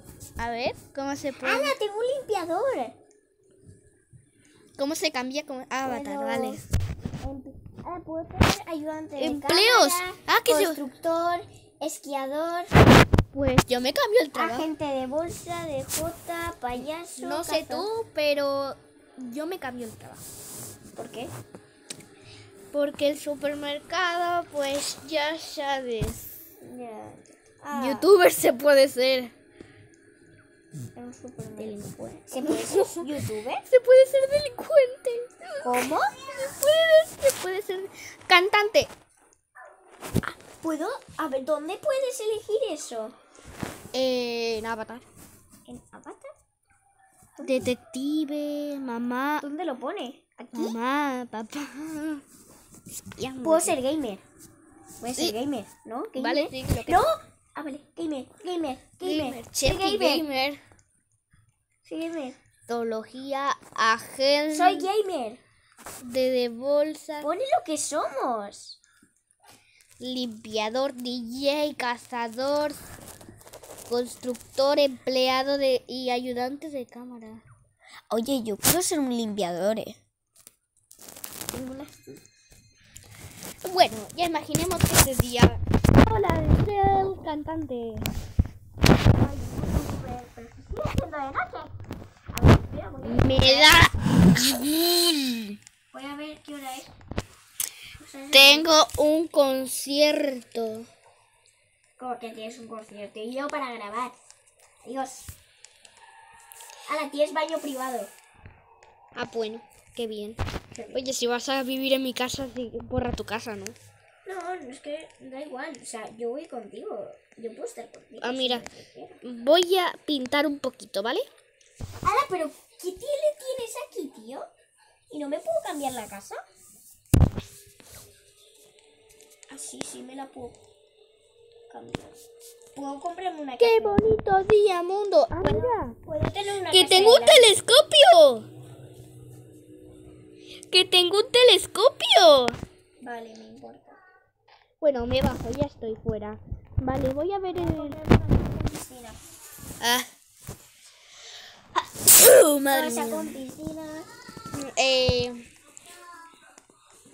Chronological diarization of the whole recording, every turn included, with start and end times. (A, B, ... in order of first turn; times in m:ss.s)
0:00.4-0:01.7 A
0:01.4-0:03.0 B
0:04.8-0:06.6 A
0:05.8-0:06.6 B
0:07.2-0:12.7 B
0:09.2-0:10.8 A
0:13.3-0:14.7 A
0:14.3-0:17.9 B
0:16.7-0:20.2 A
0:20.9-0:21.3 B
0:22.7-0:26.2 A
0:26.6-0:28.1 B
0:27.7-0:29.3 A
0:30.9-0:33.6 B
0:31.6-0:33.1 A
0:33.7-0:38.9 A
0:35.6-0:36.1 B
0:40.2-0:43.1 B
0:43.9-0:45.0 A
0:45.7-0:46.3 B
0:47.4-0:47.7 B
0:47.4-0:49.4 A
0:49.4-0:50.8 B
0:50.5-0:52.2 A
0:53.2-0:53.8 A
0:53.4-0:54.2 B
0:55.0-1:00.2 B
0:56.2-0:57.1 A
0:59.0-1:00.6 A
1:01.8-1:02.4 B
1:02.7-1:04.9 A
1:04.5-1:05.4 B
1:06.0-1:07.3 A
1:07.2-1:08.8 B
1:10.0-1:12.8 A
1:13.9-1:17.4 A
1:18.1-1:20.0 B
1:21.5-1:22.2 B
1:23.6-1:28.1 A
1:29.1-1:31.7 B
1:32.3-1:33.8 B
1:33.0-1:35.6 A
1:35.9-1:36.9 B
1:38.0-1:38.7 B
1:38.3-1:40.9 A
1:42.0-1:44.1 B
1:44.8-1:45.3 B
1:46.9-1:48.1 B
1:49.1-1:50.4 A
1:50.8-1:51.1 B
1:50.9-1:53.8 A
1:54.2-1:59.2 B
1:58.2-1:58.7 A
1:59.2-2:01.3 A
2:02.0-2:04.5 B
2:05.1-2:06.4 B
2:09.5-2:10.6 B
2:11.7-2:12.2 B
2:12.7-2:14.0 B
2:13.6-2:16.0 A
2:15.4-2:17.6 B
2:16.7-2:18.5 A
2:20.7-2:22.6 A
2:23.0-2:24.0 B
2:24.8-2:28.0 A
2:27.5-2:29.2 B
2:29.8-2:30.1 A
2:31.8-2:33.4 A
2:32.7-2:34.1 B
2:34.5-2:35.5 A